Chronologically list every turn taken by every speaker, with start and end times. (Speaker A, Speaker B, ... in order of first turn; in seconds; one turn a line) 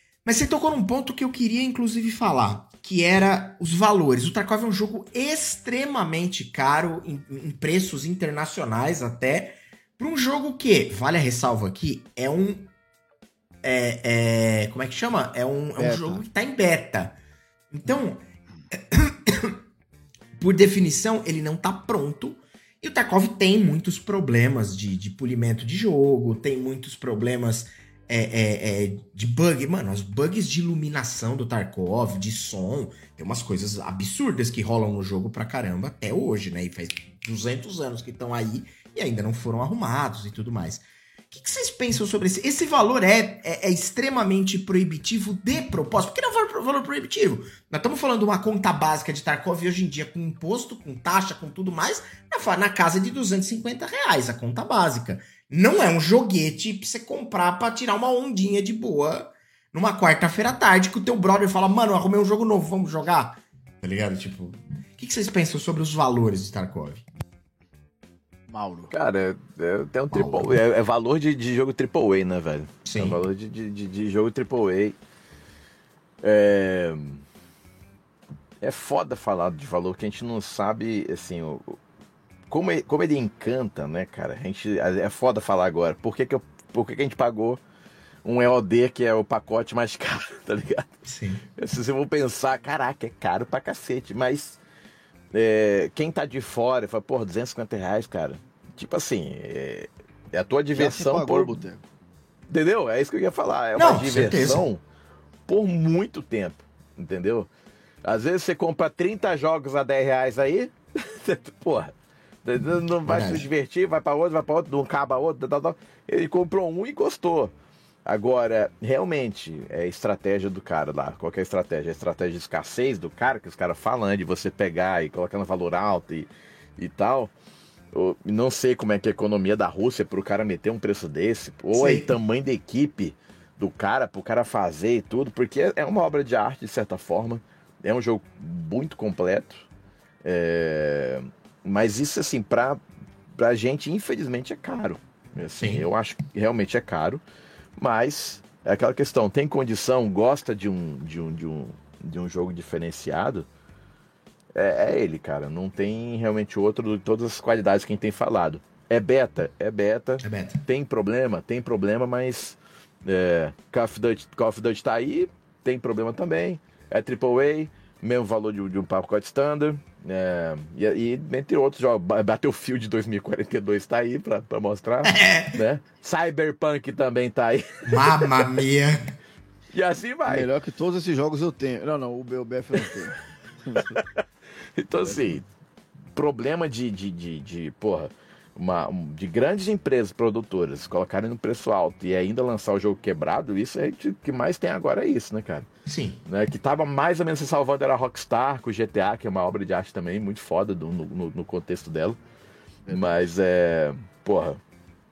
Speaker A: 0.2-12.7
Speaker A: 13.6-17.2
Speaker B: 15.8-16.2
Speaker A: 17.7-19.6
Speaker A: 20.4-67.0
Speaker B: 68.5-68.9
Speaker C: 68.9-75.0
Speaker B: 70.1-70.5
Speaker A: 72.8-73.2
Speaker C: 76.2-77.2
Speaker C: 78.6-81.8
Speaker C: 82.5-87.6
Speaker C: 88.2-90.9
Speaker A: 91.1-91.5
Speaker C: 91.6-94.6
Speaker C: 95.3-101.5
Speaker B: 100.7-101.8
Speaker C: 102.5-104.8
Speaker A: 103.8-104.7
Speaker C: 105.5-107.5
Speaker C: 108.0-117.5
Speaker A: 113.1-113.5
Speaker C: 118.1-127.3
Speaker C: 127.9-139.7
Speaker A: 131.7-132.1
Speaker C: 140.2-142.8
Speaker C: 143.3-147.2
Speaker A: 145.6-145.8
Speaker C: 147.8-153.5
Speaker C: 154.5-178.3
Speaker A: 160.2-160.6
Speaker A: 175.1-175.6
Speaker A: 177.9-179.0
Speaker C: 179.7-180.5
Speaker B: 180.3-184.0
Speaker C: 183.8-184.2
Speaker C: 184.8-185.4
Speaker B: 185.0-185.4
Speaker C: 186.2-195.7
Speaker A: 195.9-196.2
Speaker C: 196.2-202.2
Speaker B: 202.9-203.3
Speaker C: 202.9-204.6